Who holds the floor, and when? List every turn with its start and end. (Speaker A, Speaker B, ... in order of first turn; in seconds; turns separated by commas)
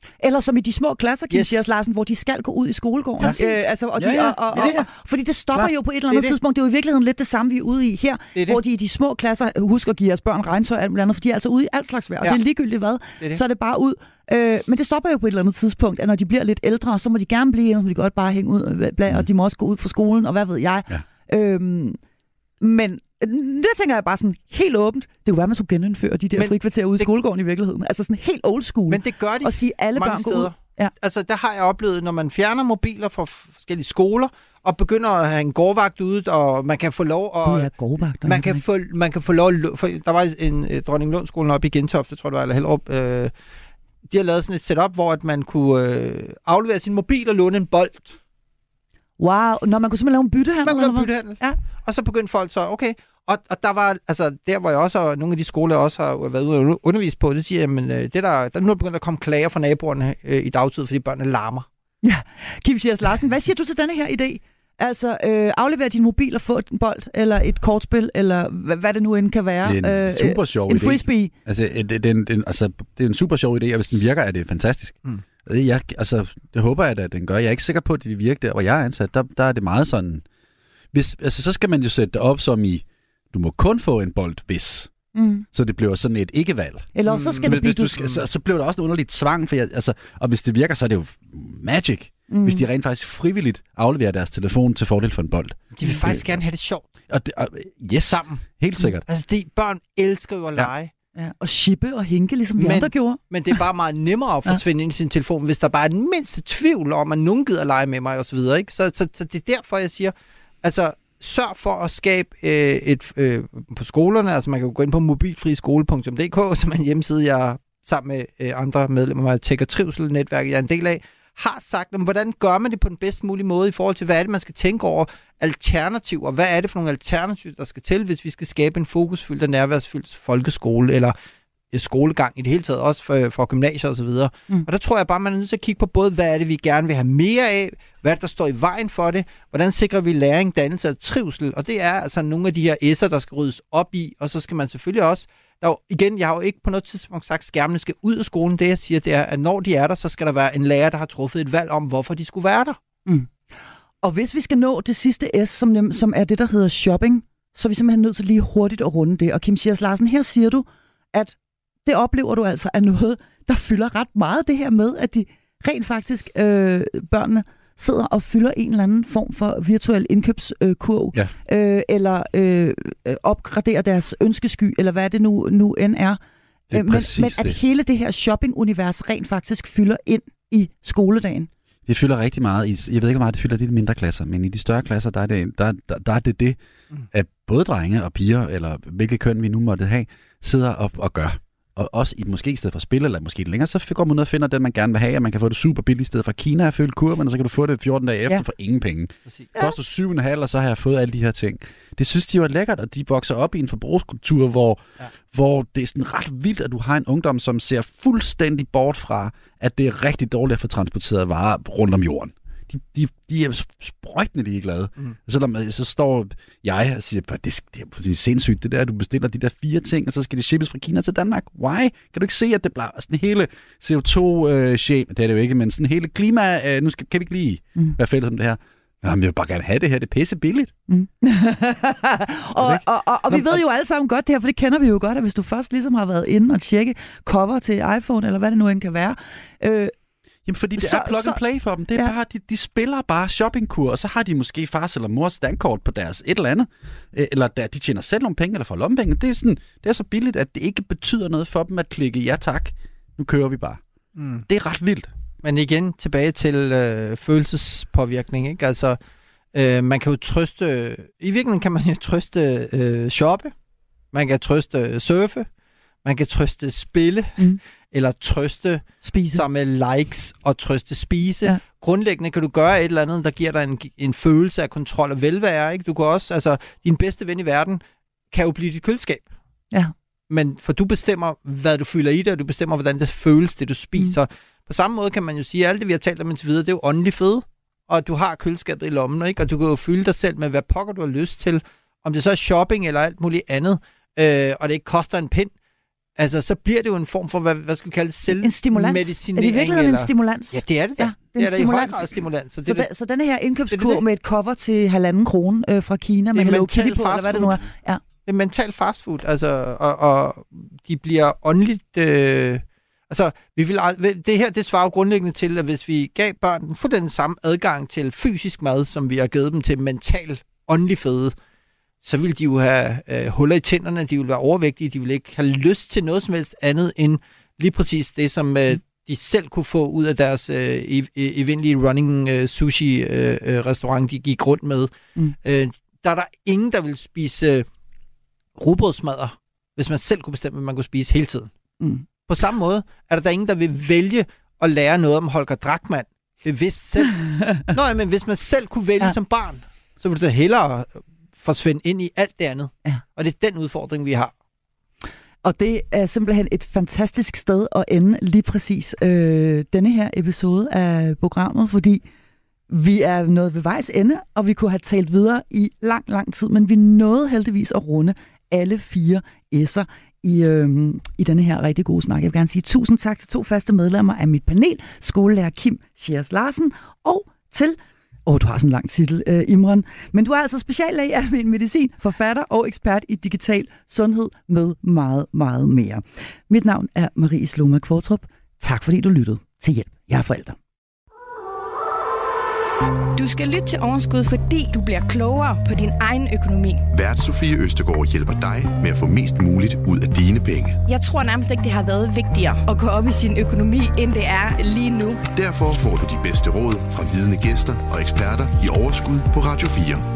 Speaker A: 0.2-22.0, Speaker B: 1.3-1.7, Speaker B: 3.2-4.9, Speaker B: 5.5-6.4, Speaker B: 8.3-8.6, Speaker A: 22.6-30.9, Speaker B: 28.9-37.7, Speaker A: 37.4-38.6, Speaker B: 38.2-43.3, Speaker B: 44.1-48.2, Speaker A: 49.2-51.6, Speaker B: 50.6-61.7, Speaker A: 62.0-71.3, Speaker C: 69.6-80.2, Speaker C: 80.9-84.9, Speaker A: 85.2-85.5, Speaker C: 85.5-96.4, Speaker A: 87.0-88.1, Speaker B: 87.1-88.2, Speaker A: 92.3-92.7, Speaker B: 95.8-96.9, Speaker C: 97.1-99.0, Speaker B: 98.1-98.4, Speaker B: 99.1-100.9, Speaker A: 101.2-103.2, Speaker B: 102.6-131.2, Speaker B: 131.7-152.8, Speaker A: 153.1-153.3, Speaker A: 154.0-176.2, Speaker C: 176.7-177.6, Speaker A: 176.7-181.5, Speaker C: 181.9-186.6, Speaker C: 187.1-230.7, Speaker A: 230.9-239.9, Speaker C: 232.6-233.6, Speaker C: 240.5-253.8, Speaker A: 240.8-241.4, Speaker B: 254.2-254.4, Speaker C: 254.5-255.1, Speaker B: 255.4-259.0, Speaker B: 259.5-263.5, Speaker B: 264.1-265.5, Speaker B: 266.0-279.3, Speaker A: 269.0-269.4, Speaker B: 280.3-295.5, Speaker B: 296.2-302.9, Speaker A: 298.3-308.0, Speaker B: 303.7-304.0, Speaker B: 306.4-307.6, Speaker B: 308.3-321.3, Speaker B: 322.0-337.7, Speaker B: 338.6-341.5, Speaker A: 341.8-342.1, Speaker B: 342.3-354.3, Speaker A: 347.1-347.7, Speaker A: 355.4-362.0, Speaker A: 362.7-390.6, Speaker D: 393.1-396.9, Speaker E: 396.9-400.8, Speaker D: 400.9-405.2, Speaker E: 405.3-410.0